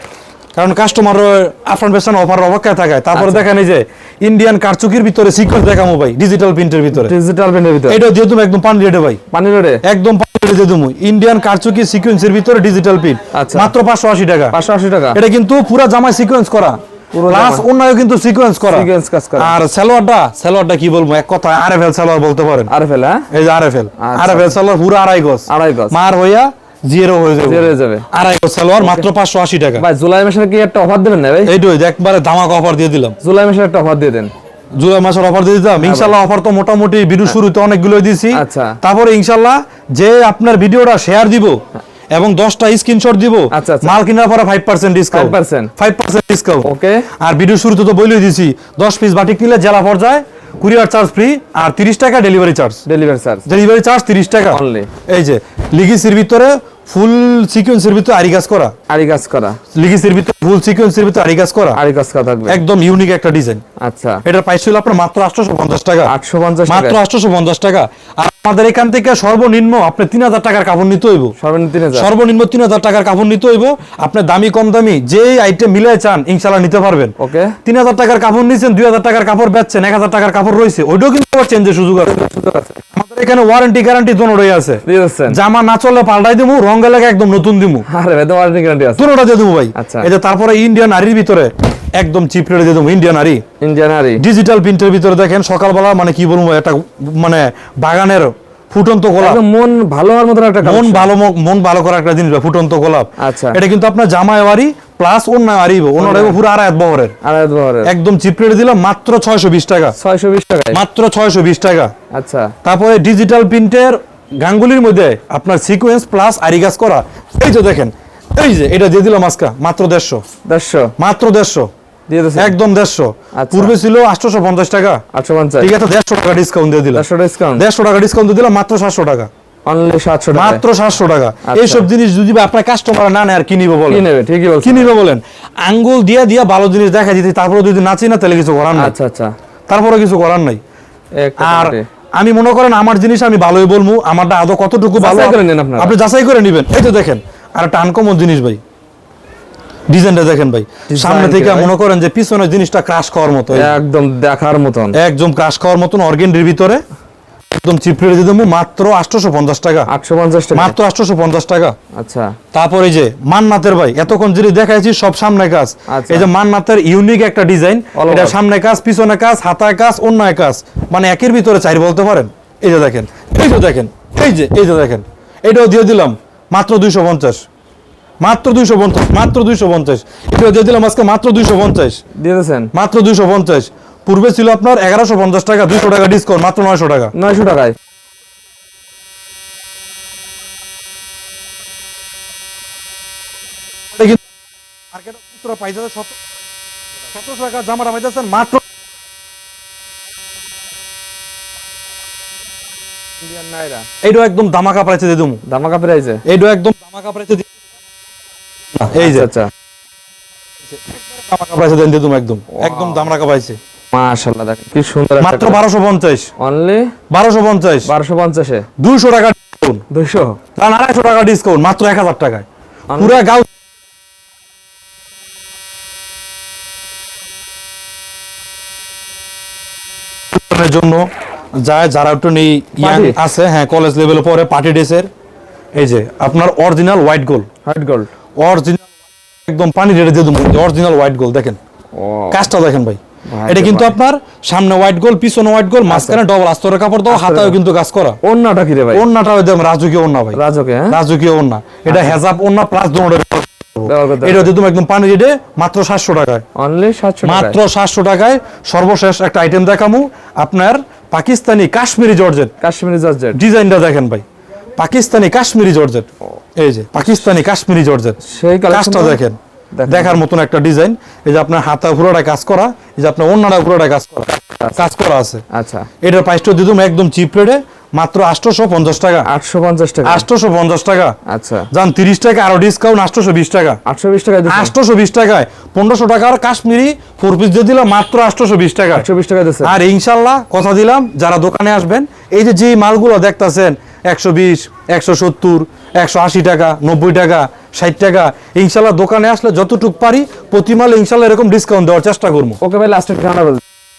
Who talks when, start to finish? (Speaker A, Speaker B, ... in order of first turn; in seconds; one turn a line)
Speaker A: 0.6-7.1
Speaker B: 3.1-3.5
Speaker B: 6.9-8.0
Speaker A: 7.9-9.2
Speaker B: 9.3-9.8
Speaker A: 9.8-14.6
Speaker B: 13.3-13.7
Speaker B: 14.5-15.2
Speaker A: 15.1-22.7
Speaker B: 17.1-17.7
Speaker B: 18.6-19.5
Speaker B: 22.7-23.3
Speaker A: 23.3-29.9
Speaker B: 24.0-24.6
Speaker B: 25.5-25.9
Speaker B: 27.4-28.1
Speaker B: 28.8-29.1
Speaker B: 29.8-31.5
Speaker A: 31.4-33.2
Speaker B: 33.2-34.3
Speaker A: 34.8-41.6
Speaker B: 35.8-36.2
Speaker B: 38.3-38.8
Speaker A: 42.1-52.8
Speaker B: 43.5-43.9
Speaker B: 45.1-45.7
Speaker B: 46.6-47.1
Speaker B: 52.9-53.5
Speaker A: 53.5-58.7
Speaker B: 54.5-54.9
Speaker B: 58.9-59.6
Speaker A: 59.7-61.8
Speaker B: 61.8-62.6
Speaker A: 62.5-63.6
Speaker B: 63.8-64.2
Speaker A: 64.2-66.1
Speaker B: 66.1-67.0
Speaker A: 66.7-71.3
Speaker B: 71.4-72.1
Speaker A: 71.9-82.2
Speaker B: 77.2-77.5
Speaker B: 82.1-82.8
Speaker A: 82.9-87.8
Speaker B: 84.9-85.4
Speaker B: 87.9-89.1
Speaker A: 89.0-93.4
Speaker B: 89.8-90.1
Speaker B: 93.6-94.2
Speaker A: 94.2-99.4
Speaker B: 99.2-101.1
Speaker A: 100.6-107.2
Speaker B: 103.2-103.6
Speaker B: 106.0-106.4
Speaker B: 107.2-107.9
Speaker A: 107.8-110.0
Speaker B: 110.0-110.8
Speaker A: 110.7-111.9
Speaker B: 112.1-112.5
Speaker A: 112.6-120.2
Speaker B: 120.5-120.9
Speaker A: 121.0-121.7
Speaker B: 122.1-122.6
Speaker A: 122.4-125.0
Speaker B: 123.3-123.8
Speaker B: 125.1-125.7
Speaker A: 125.6-127.1
Speaker B: 126.9-127.7
Speaker A: 127.6-129.3
Speaker B: 129.7-130.6
Speaker A: 130.3-134.1
Speaker B: 131.4-131.9
Speaker B: 133.9-134.9
Speaker A: 134.6-138.9
Speaker B: 138.8-139.3
Speaker A: 139.7-140.6
Speaker B: 141.2-141.9
Speaker A: 141.4-148.6
Speaker B: 145.0-146.0
Speaker A: 149.9-153.8
Speaker B: 150.9-151.7
Speaker B: 153.5-155.0
Speaker A: 154.9-156.8
Speaker A: 157.6-159.9
Speaker B: 159.9-160.8
Speaker A: 160.5-161.8
Speaker B: 161.9-162.4
Speaker A: 162.5-177.4
Speaker B: 165.9-166.3
Speaker B: 167.9-168.4
Speaker A: 178.2-182.0
Speaker B: 182.2-182.7
Speaker A: 182.7-187.1
Speaker B: 187.1-187.8
Speaker A: 193.9-194.2
Speaker A: 194.9-196.2
Speaker A: 197.1-198.6
Speaker B: 203.2-203.9
Speaker A: 204.0-205.4
Speaker B: 205.4-206.2
Speaker A: 206.3-207.5
Speaker A: 208.7-209.3
Speaker B: 209.0-209.5
Speaker A: 210.7-213.6
Speaker B: 212.5-213.1
Speaker B: 213.9-215.6
Speaker A: 215.2-216.3
Speaker B: 216.4-216.9
Speaker A: 217.1-217.9
Speaker B: 217.8-218.7
Speaker A: 218.8-219.8
Speaker B: 219.9-220.4
Speaker A: 220.6-222.5
Speaker B: 222.9-223.2
Speaker A: 223.0-223.5
Speaker A: 230.3-231.1
Speaker A: 231.6-235.1
Speaker B: 232.8-233.2
Speaker A: 235.8-237.5
Speaker B: 237.7-238.1
Speaker A: 238.4-238.9
Speaker A: 239.4-241.6
Speaker B: 241.9-242.4
Speaker A: 242.3-248.2
Speaker B: 243.3-243.9
Speaker B: 245.9-246.2
Speaker B: 247.1-247.6
Speaker B: 248.2-249.1
Speaker A: 248.9-256.4
Speaker B: 250.3-251.0
Speaker B: 251.9-252.2
Speaker B: 253.9-254.5
Speaker B: 256.6-257.6
Speaker A: 257.2-262.5
Speaker B: 262.6-263.4
Speaker A: 263.3-264.2
Speaker A: 264.8-268.2
Speaker B: 268.2-269.2
Speaker A: 268.7-275.4
Speaker B: 269.7-270.2
Speaker B: 275.5-275.9
Speaker A: 276.0-279.3
Speaker B: 279.2-280.3
Speaker A: 280.0-281.2
Speaker B: 281.3-281.7
Speaker A: 281.7-283.8
Speaker B: 283.9-284.7
Speaker A: 284.5-289.1
Speaker B: 288.9-289.7
Speaker A: 289.6-302.6
Speaker B: 302.6-303.6